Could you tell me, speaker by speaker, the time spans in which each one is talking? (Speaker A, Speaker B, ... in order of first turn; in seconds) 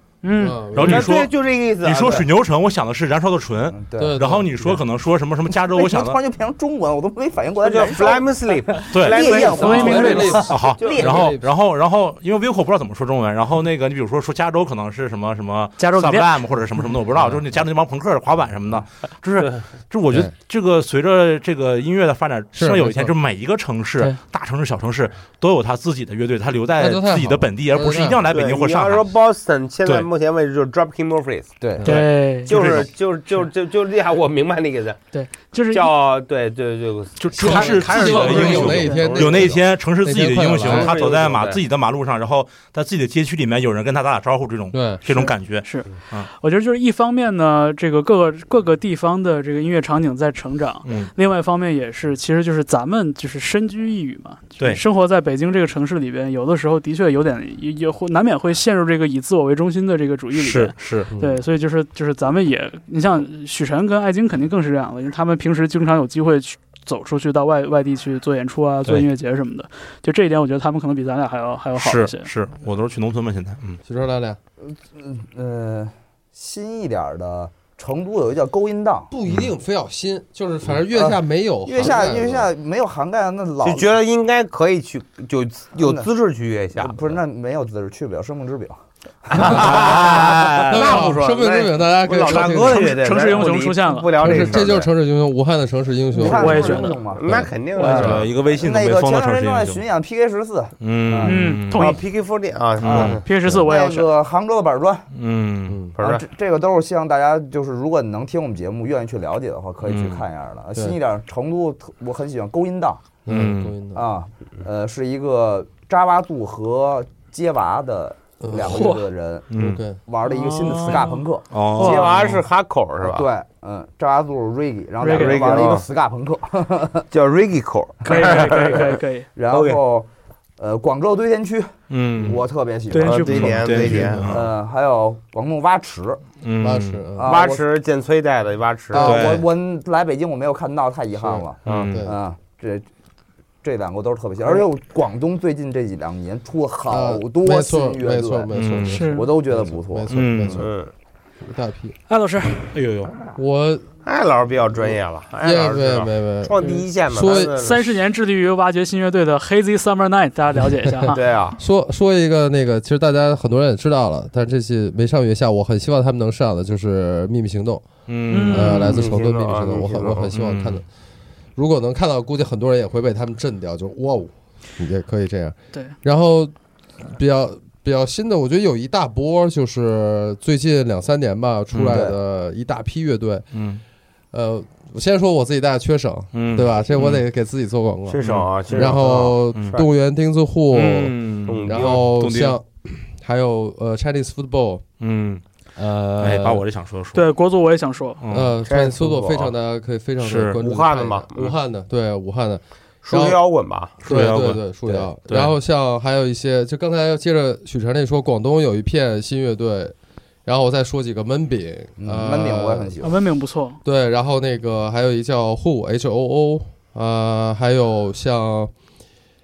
Speaker A: 0.2-0.6, 9.5-10.3, 15.8-16.3, 31.9-32.5, 35.1-35.9, 38.0-39.0, 45.2-72.3, 92.6-94.1, 96.2-97.0, 101.2-102.0, 102.9-104.1, 118.6-119.0, 120.3-121.2, 121.8-122.1, 125.0-125.7, 128.1-129.3, 132.9-133.7, 148.9-149.3, 152.1-152.8, 157.6-161.2, 168.3-169.0, 197.1-198.2, 213.0-213.8
Speaker B: 0.4-1.1, 4.0-4.8, 9.3-11.5, 22.6-23.1, 26.8-28.2, 37.4-41.0, 44.7-45.1, 61.1-61.4, 73.8-74.4, 79.1-82.5, 90.7-93.0, 94.2-98.3, 105.7-105.9, 113.3-114.0, 118.4-118.9, 119.6-120.0, 136.6-137.4, 141.2-142.2, 146.9-150.7, 151.4-151.9, 153.3-153.9, 155.4-157.6, 161.6-167.9, 168.5-170.8, 171.6-183.5, 184.3-194.8, 195.8-196.6, 198.3-203.4, 204.1-212.9, 213.8-218.7
Speaker C: 0.7-6.2, 8.9-29.1, 31.9-32.9, 37.2-46.3, 50.9-51.1, 60.3-61.1, 71.8-73.8, 89.4-91.0, 94.2-94.6, 97.8-99.8, 100.8-101.9, 102.8-103.2, 105.1-105.9, 109.9-110.2, 113.3-113.8, 119.5-119.9, 121.5-122.4, 131.9-132.4, 133.3-134.5, 136.4-137.1, 139.0-139.5, 141.7-142.1, 148.5-149.0, 150.1-150.6, 152.7-153.2, 168.1-168.8, 170.3-170.8, 181.7-182.1, 183.5-183.8, 186.3-187.2, 188.2-188.9, 189.5-189.8, 190.7-192.6, 195.0-195.4, 196.2-197.2, 198.2-198.6, 200.2-200.6, 204.1-205.5
Speaker D: 0.8-2.3, 7.6-11.1, 28.3-31.6, 32.5-35.0, 35.7-39.6, 40.6-41.6, 83.6-87.1, 89.4-94.9, 97.1-98.1, 101.8-103.2, 106.0-106.2, 121.8-123.3, 125.1-125.9, 127.1-129.0, 129.5-129.8, 133.0-134.4, 137.2-139.2, 150.6-150.9, 154.1-157.9, 161.1-161.6, 168.6-170.3, 188.1-189.9, 191.5-192.0, 198.6-199.5, 200.6-201.6, 203.0-204.3
Speaker E: 3.7-4.3, 5.6-11.3, 31.6-31.9, 74.7-79.1, 81.7-83.9, 85.8-86.1, 86.8-90.1, 96.1-101.4, 102.9-105.1, 106.0-113.1, 113.9-122.1, 123.0-127.1, 129.4-136.3, 137.2-137.7, 138.9-142.9, 143.6-150.6, 212.0-213.2